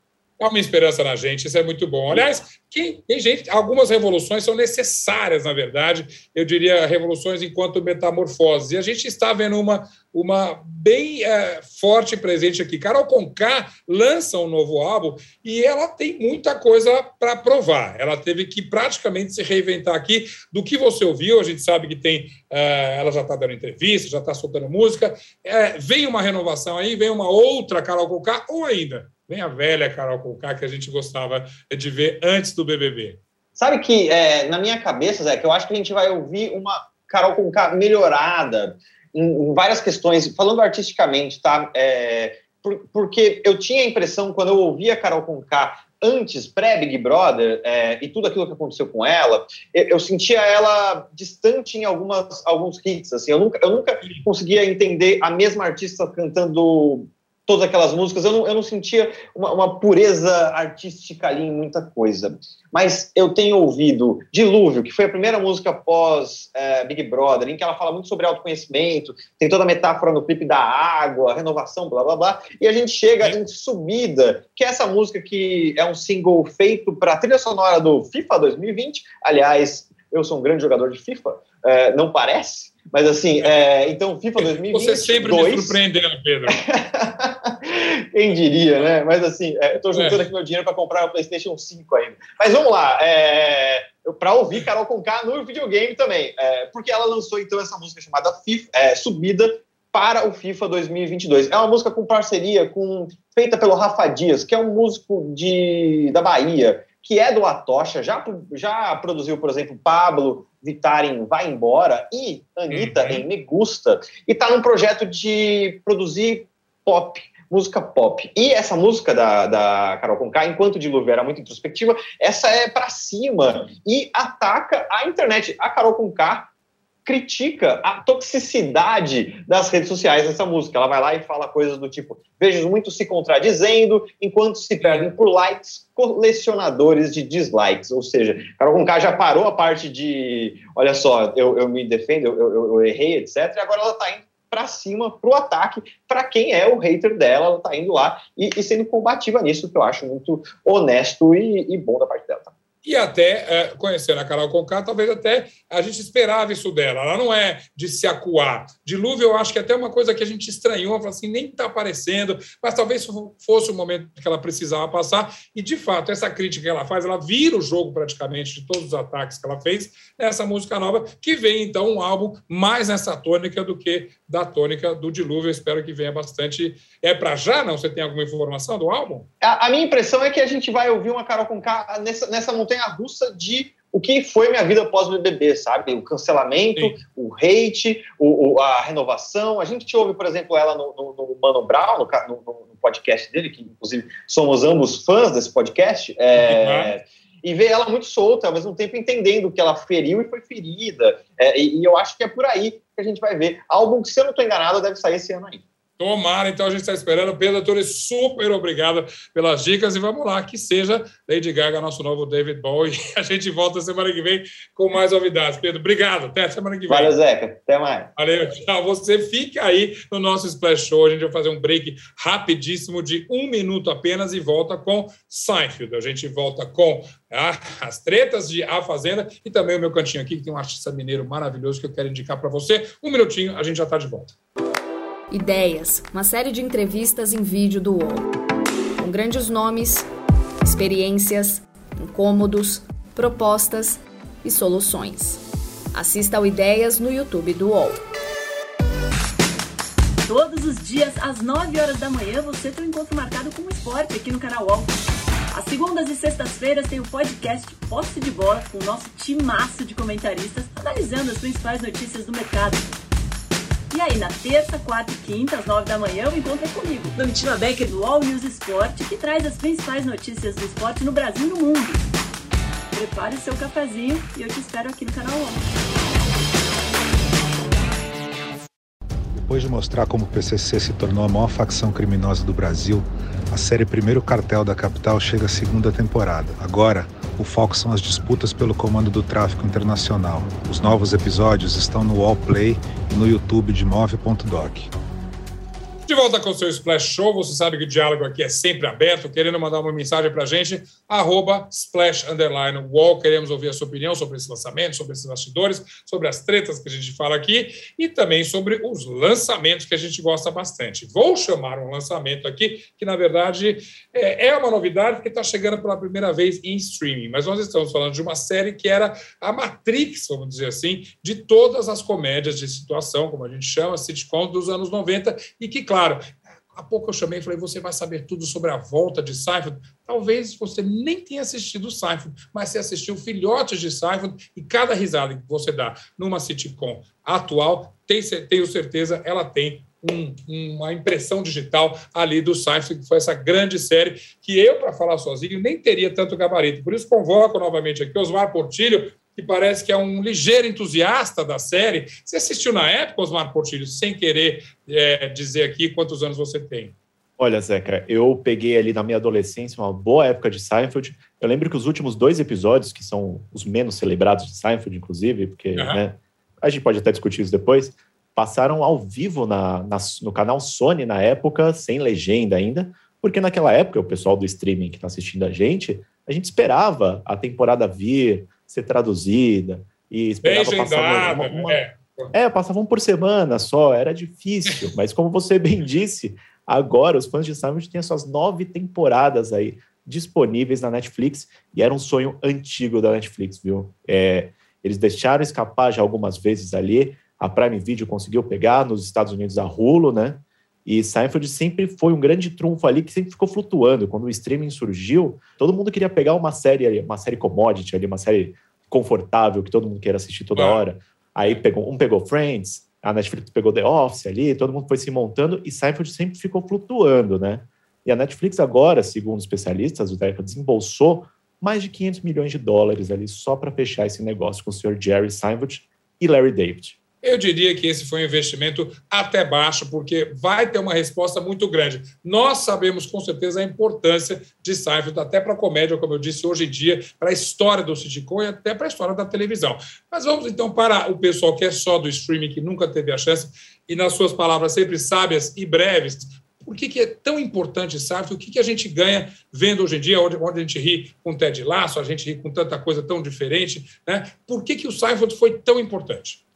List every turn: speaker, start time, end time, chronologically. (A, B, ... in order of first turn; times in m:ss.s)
0:00.4-0:33.2 A
0:33.6-1:25.8 B
1:24.4-1:26.6 A
1:26.5-2:06.5 B
1:29.9-1:30.2 A
1:52.7-1:53.2 A
2:07.0-2:32.5 B
2:14.8-2:15.1 A
2:32.8-2:59.3 A
2:59.4-3:25.6 B
3:16.4-3:16.9 A
3:26.0-3:37.1 A
3:36.9-3:38.1 B
3:38.2-3:54.3 A
3:55.3-3:58.3 C
3:59.0-4:00.1 C
4:00.6-4:05.4 C
4:05.9-4:08.0 C
4:10.2-4:15.0 D
4:15.5-4:23.0 D
4:23.9-4:32.0 D
4:32.9-4:35.6 D
4:39.3-4:54.9 E
4:56.0-5:56.9 A
5:57.4-6:21.8 F
6:05.8-6:06.0 A
6:20.4-6:22.3 A
6:22.3-7:07.0 F
6:50.6-6:50.8 A
7:07.2-7:36.4 A